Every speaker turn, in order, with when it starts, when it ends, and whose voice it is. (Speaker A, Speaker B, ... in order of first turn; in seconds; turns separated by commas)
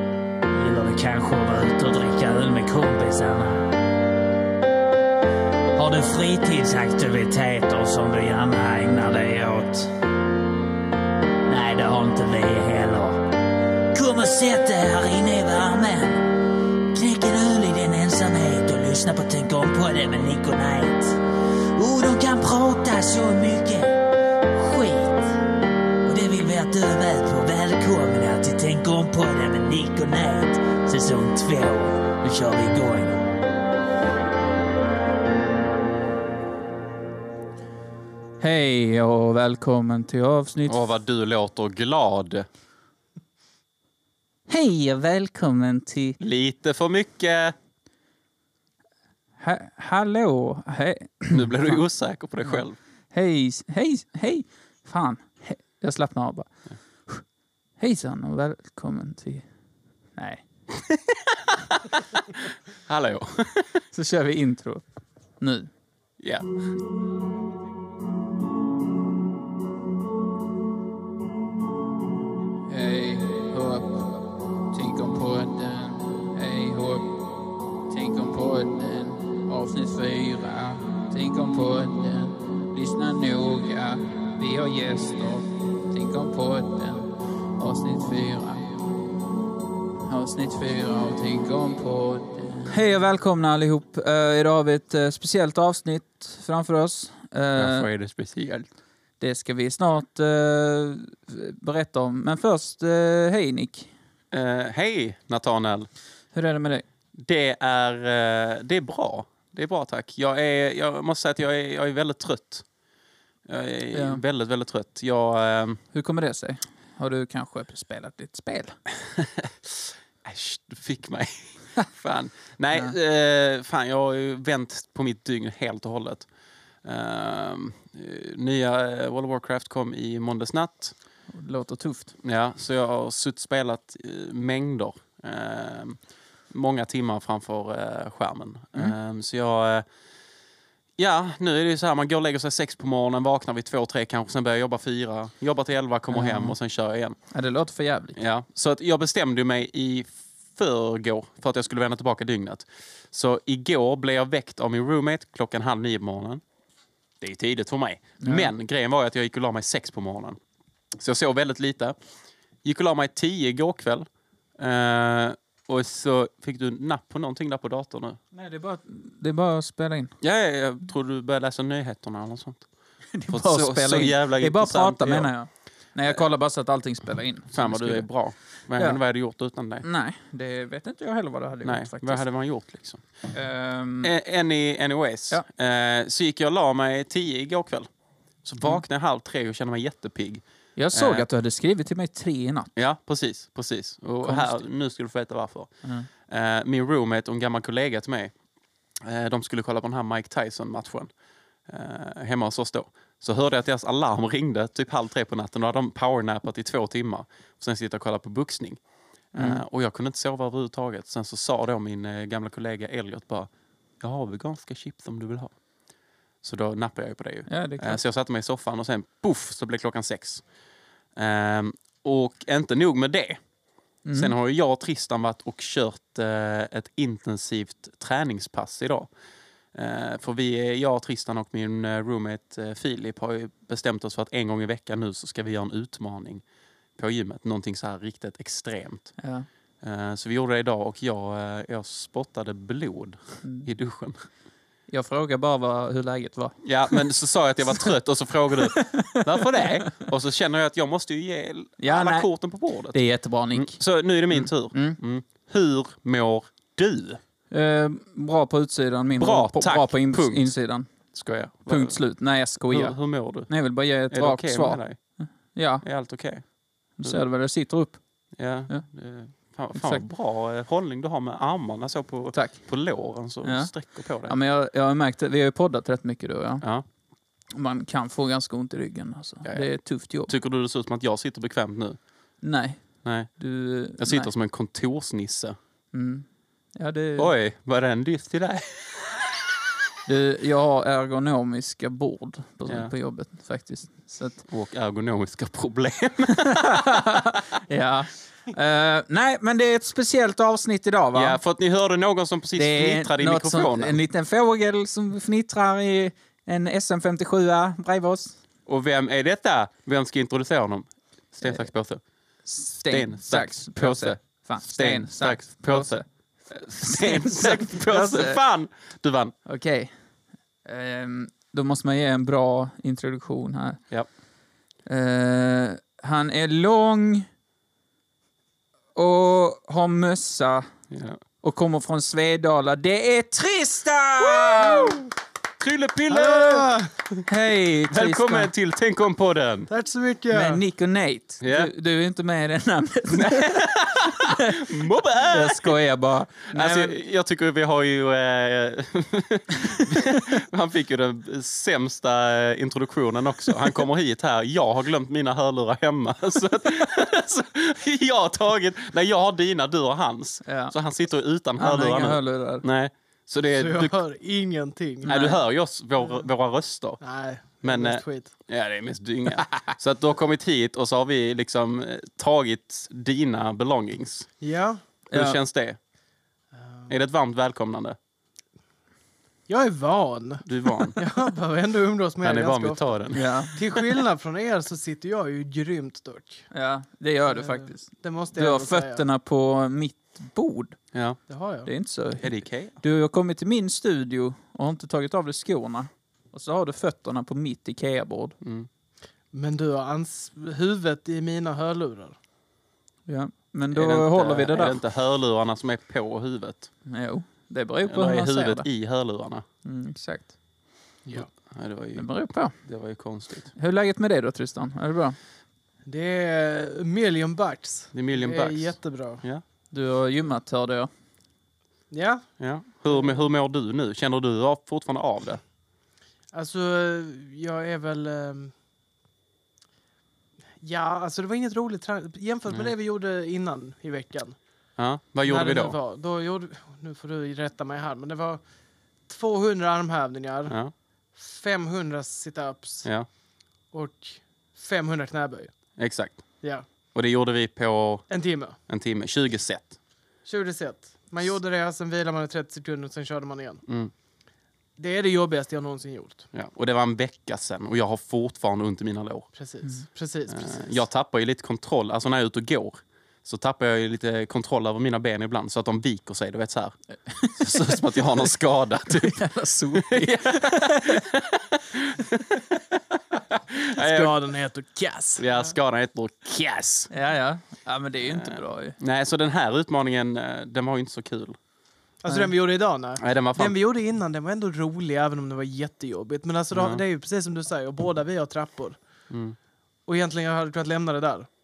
Speaker A: 0.5-3.7, Speaker A: 5.8-9.9, Speaker A: 11.5-13.3, Speaker A: 13.9-16.3, Speaker A: 16.9-21.2, Speaker A: 21.8-24.0, Speaker A: 24.5-25.4, Speaker A: 26.0-33.2, Speaker B: 38.4-40.9, Speaker C: 40.7-42.5, Speaker B: 44.5-46.2, Speaker C: 46.2-47.5, Speaker B: 49.4-51.8, Speaker C: 51.3-52.8, Speaker B: 52.5-56.5, Speaker B: 57.8-59.5, Speaker B: 60.2-60.4, Speaker C: 60.7-63.8, Speaker B: 63.9-64.8, Speaker B: 65.4-65.7, Speaker C: 66.2-66.5, Speaker B: 72.7-77.2, Speaker B: 77.9-88.8, Speaker B: 90.1-97.9, Speaker C: 97.6-98.7, Speaker B: 99.2-103.9, Speaker C: 104.3-105.9, Speaker B: 106.3-106.9, Speaker C: 107.2-112.7, Speaker C: 113.5-115.8, Speaker B: 113.9-114.2, Speaker B: 115.9-118.8, Speaker C: 119.0-126.3, Speaker C: 126.8-130.9, Speaker B: 131.3-132.1, Speaker C: 132.2-136.0, Speaker C: 136.5-139.9, Speaker C: 141.0-147.2, Speaker B: 146.1-146.6, Speaker B: 147.3-148.2, Speaker C: 148.2-156.4, Speaker C: 157.2-160.4, Speaker B: 158.2-158.5, Speaker C: 160.9-162.0, Speaker C: 162.6-164.1, Speaker C: 164.6-168.2, Speaker B: 168.3-170.1, Speaker C: 170.2-172.7, Speaker B: 173.2-178.1, Speaker C: 173.3-175.3, Speaker C: 177.5-179.9, Speaker B: 178.7-179.0, Speaker B: 179.8-182.2, Speaker C: 181.6-183.0, Speaker B: 183.3-184.1, Speaker C: 184.0-187.9, Speaker C: 188.4-191.2, Speaker B: 190.8-192.7, Speaker C: 192.8-198.3, Speaker B: 194.2-194.6, Speaker C: 199.0-201.1, Speaker C: 201.7-208.8, Speaker C: 209.3-215.6, Speaker B: 209.3-209.6, Speaker C: 216.4-220.4, Speaker B: 217.5-218.0, Speaker C: 221.2-223.4, Speaker B: 224.1-224.3, Speaker C: 224.1-229.1, Speaker C: 229.7-236.4, Speaker C: 237.0-239.2, Speaker B: 239.2-239.5, Speaker C: 239.8-244.2, Speaker B: 243.4-243.7, Speaker B: 244.9-247.1, Speaker C: 246.6-253.0, Speaker B: 248.5-249.7, Speaker B: 251.8-252.3, Speaker B: 252.9-253.8, Speaker C: 253.5-257.2, Speaker B: 254.3-255.0, Speaker B: 257.5-260.9, Speaker C: 259.2-260.4, Speaker C: 261.1-262.0, Speaker B: 261.6-265.8, Speaker C: 262.7-263.5, Speaker C: 264.1-265.0, Speaker C: 265.8-266.4, Speaker B: 267.0-268.0, Speaker C: 268.4-274.4, Speaker B: 269.8-270.0, Speaker B: 272.3-272.6, Speaker B: 273.4-273.7, Speaker B: 274.2-276.6, Speaker B: 277.5-280.3, Speaker C: 280.3-282.0, Speaker B: 282.4-282.8, Speaker C: 283.0-283.3, Speaker B: 283.4-284.3, Speaker C: 284.0-285.6, Speaker B: 285.9-287.3, Speaker C: 287.1-289.4, Speaker B: 290.0-294.4, Speaker C: 292.7-292.9, Speaker C: 294.5-297.2, Speaker B: 296.3-301.4, Speaker C: 301.1-304.0, Speaker B: 302.6-308.4, Speaker C: 308.7-312.0, Speaker B: 312.4-316.0, Speaker C: 312.8-319.3, Speaker B: 316.8-318.4, Speaker B: 319.4-319.9, Speaker B: 320.6-323.8, Speaker B: 324.9-327.3, Speaker B: 328.9-330.7, Speaker C: 330.9-331.2, Speaker B: 331.4-335.0, Speaker C: 334.2-335.0, Speaker C: 335.6-336.7, Speaker D: 336.1-337.0, Speaker B: 337.3-338.5, Speaker C: 337.9-339.7, Speaker D: 339.7-340.6, Speaker B: 340.3-346.9, Speaker C: 341.4-341.7, Speaker C: 343.1-345.8, Speaker C: 346.5-364.0, Speaker B: 360.4-360.8, Speaker B: 361.6-362.6, Speaker D: 363.5-365.1, Speaker C: 365.1-367.0, Speaker B: 365.1-365.4, Speaker D: 367.0-368.3, Speaker C: 367.6-374.3, Speaker D: 374.4-374.8, Speaker B: 375.1-375.4, Speaker C: 375.1-375.8, Speaker D: 376.5-376.9, Speaker C: 376.9-378.0, Speaker D: 379.5-382.9, Speaker C: 380.4-381.0, Speaker C: 382.2-383.2, Speaker B: 383.1-383.5, Speaker D: 383.5-386.4, Speaker B: 386.5-390.8, Speaker D: 387.2-389.0, Speaker D: 391.3-391.7, Speaker B: 391.6-398.4, Speaker C: 392.2-392.8, Speaker C: 398.4-398.7, Speaker D: 399.3-402.1, Speaker B: 403.1-404.8, Speaker C: 403.7-406.7, Speaker B: 406.9-408.7, Speaker C: 407.8-409.4, Speaker B: 409.6-410.3, Speaker C: 411.4-412.1, Speaker B: 411.9-412.5, Speaker C: 412.6-413.5, Speaker B: 413.6-415.2, Speaker D: 415.9-419.2, Speaker C: 417.9-419.4, Speaker B: 419.7-420.9, Speaker D: 421.9-422.2, Speaker C: 422.4-425.4, Speaker D: 426.3-428.5, Speaker D: 430.6-434.4, Speaker C: 434.8-435.8, Speaker D: 435.2-438.4, Speaker D: 439.1-440.6, Speaker D: 441.1-442.9, Speaker D: 443.7-445.5, Speaker C: 445.8-446.2, Speaker C: 446.9-448.1, Speaker D: 448.1-448.6, Speaker C: 448.7-449.8, Speaker D: 450.2-453.6, Speaker C: 453.7-453.9, Speaker D: 454.8-456.3, Speaker C: 456.3-459.3, Speaker D: 459.3-460.7, Speaker C: 460.3-466.8, Speaker B: 467.1-468.2, Speaker C: 467.4-469.2, Speaker B: 468.9-471.0, Speaker C: 469.8-474.1, Speaker D: 473.8-475.3, Speaker C: 475.2-476.9, Speaker B: 476.9-478.8, Speaker C: 478.0-481.4, Speaker D: 482.0-488.8, Speaker C: 483.0-483.6, Speaker C: 486.5-486.8, Speaker C: 489.1-489.4, Speaker D: 489.9-491.3